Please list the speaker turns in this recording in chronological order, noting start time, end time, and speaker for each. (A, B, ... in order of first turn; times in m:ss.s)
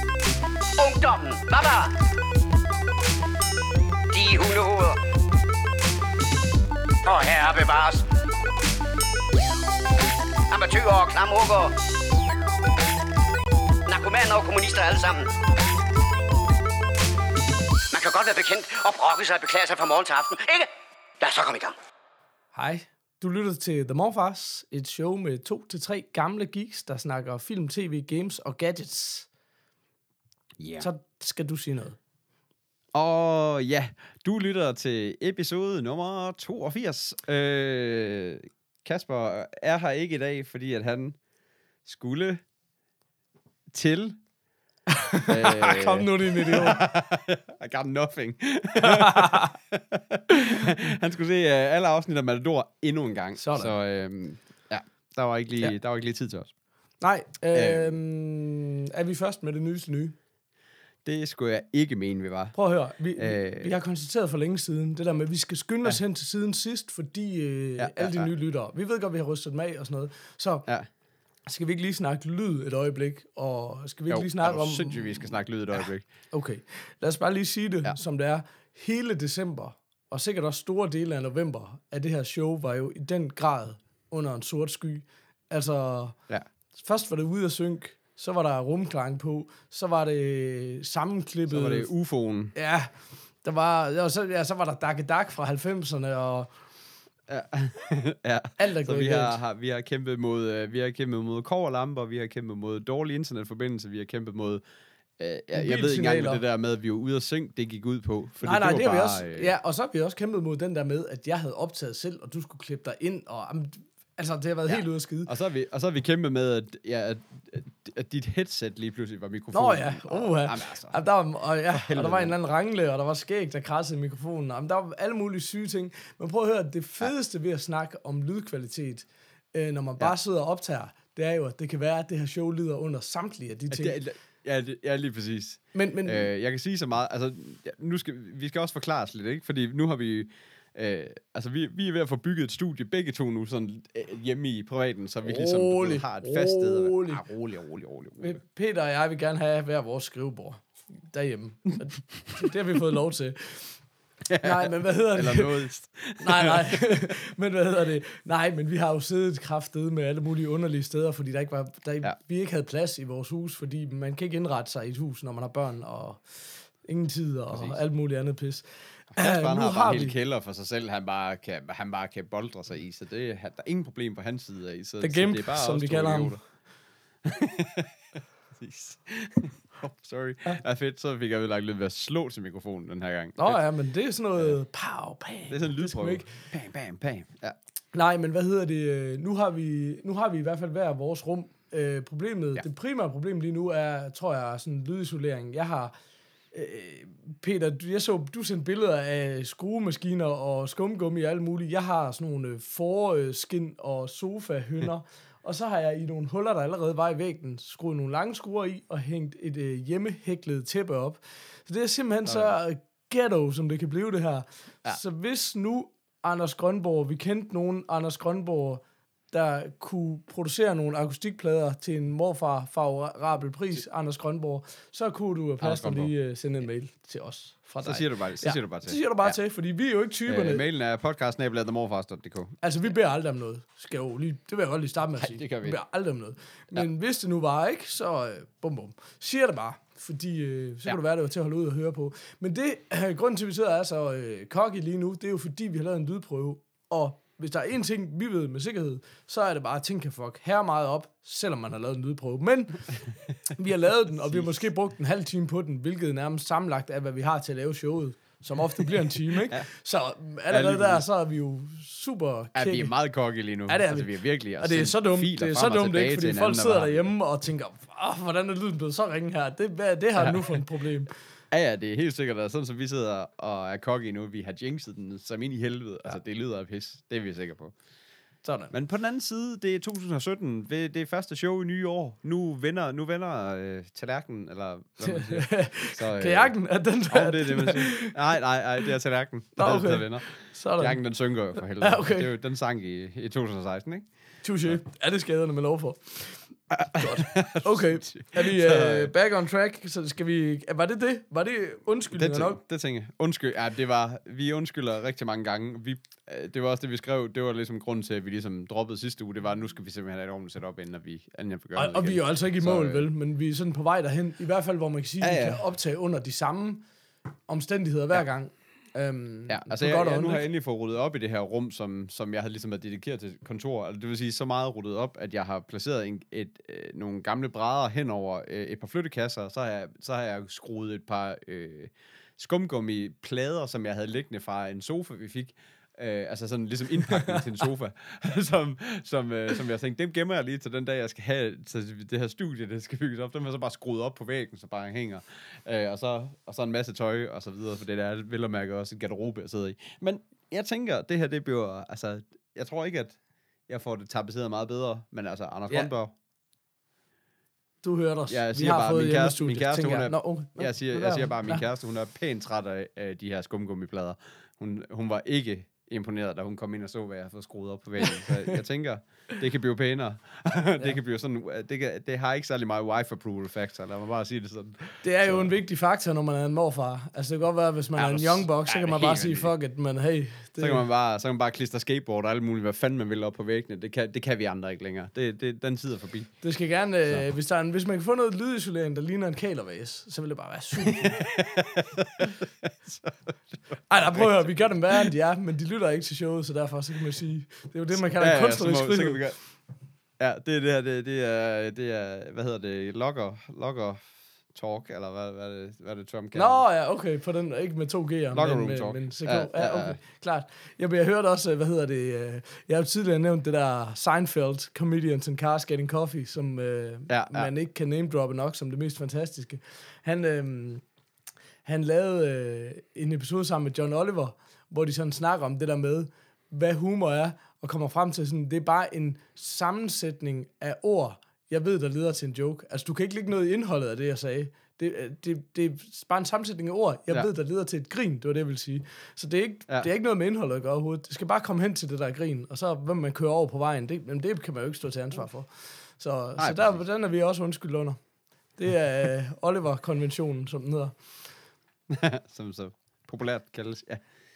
0:00.8-0:01.9 A
0:04.1-0:05.0 A
0:07.0-0:08.0 A
0:10.5-0:11.7 A
0:13.9-0:15.3 A
0:17.9-0:21.8 A
0:22.5-0:29.3 B
0:30.6-0:30.9 C
0:30.8-0:32.0 B
0:32.9-0:41.2 C
0:41.8-0:42.4 C
0:43.7-0:44.2 C
0:45.1-0:46.8 B
0:45.3-0:56.5 C
0:48.8-0:49.5 B
0:53.4-0:53.7 B
0:57.0-1:00.2 B
0:57.5-0:58.0 C
1:01.0-1:02.6 C
1:02.5-1:10.7 B
1:03.2-1:03.7 C
1:07.8-1:08.3 C
1:11.4-1:26.2 B
1:14.1-1:16.0 C
1:26.7-1:31.9 B
1:31.5-1:32.5 C
1:32.5-1:36.5 B
1:37.3-1:44.6 C
1:38.6-1:39.4 B
1:45.2-1:49.5 C
1:45.5-1:46.4 B
1:48.4-1:55.3 B
1:54.7-2:01.0 C
1:59.5-2:14.0 B
2:01.7-2:02.3 C
2:13.7-2:28.4 C
2:15.7-2:16.3 B
2:25.2-2:27.2 B
2:28.2-2:33.8 B
2:34.2-2:37.0 C
2:34.4-2:35.5 B
2:36.2-2:50.1 B
2:47.5-2:47.8 C
2:49.1-2:56.4 C
2:55.0-2:56.4 B
2:57.2-3:03.6 C
3:03.4-3:06.4 B
3:05.5-3:07.6 C
3:07.9-3:15.9 B
3:16.5-3:50.6 B
3:32.2-3:32.5 C
3:45.6-3:46.1 C
3:47.8-3:49.4 C
3:50.3-3:52.5 C
3:52.6-4:22.9 B
3:55.2-3:55.8 C
4:20.5-4:21.0 C
4:22.6-4:27.1 C
4:23.7-4:31.1 B
4:31.5-4:37.7 C
4:38.4-4:38.7 B
4:38.7-4:46.6 C
4:45.0-4:48.2 B
4:47.1-4:54.1 C
4:49.6-4:52.3 B
4:54.4-5:02.6 B
4:56.7-4:59.1 C
5:02.1-5:13.1 C
5:11.8-5:16.9 B
5:15.2-5:15.6 C
5:17.5-5:20.4 B
5:19.5-5:53.2 C
5:53.7-5:56.1 C
5:57.8-6:01.6 B
5:58.3-6:15.5 C
6:15.0-6:20.8 B
6:18.0-6:19.5 C
6:20.6-6:26.4 C
6:26.4-6:31.3 B
6:30.9-6:35.0 C
6:33.9-6:39.2 B
6:37.9-6:39.4 C
6:40.2-6:44.0 C
6:44.5-6:46.6 C
6:46.3-7:00.8 B
6:48.3-6:50.0 C
6:57.1-6:57.5 C
7:01.6-7:28.0 B
7:26.4-7:26.8 C
7:28.6-7:31.0 B
7:31.9-7:34.0 C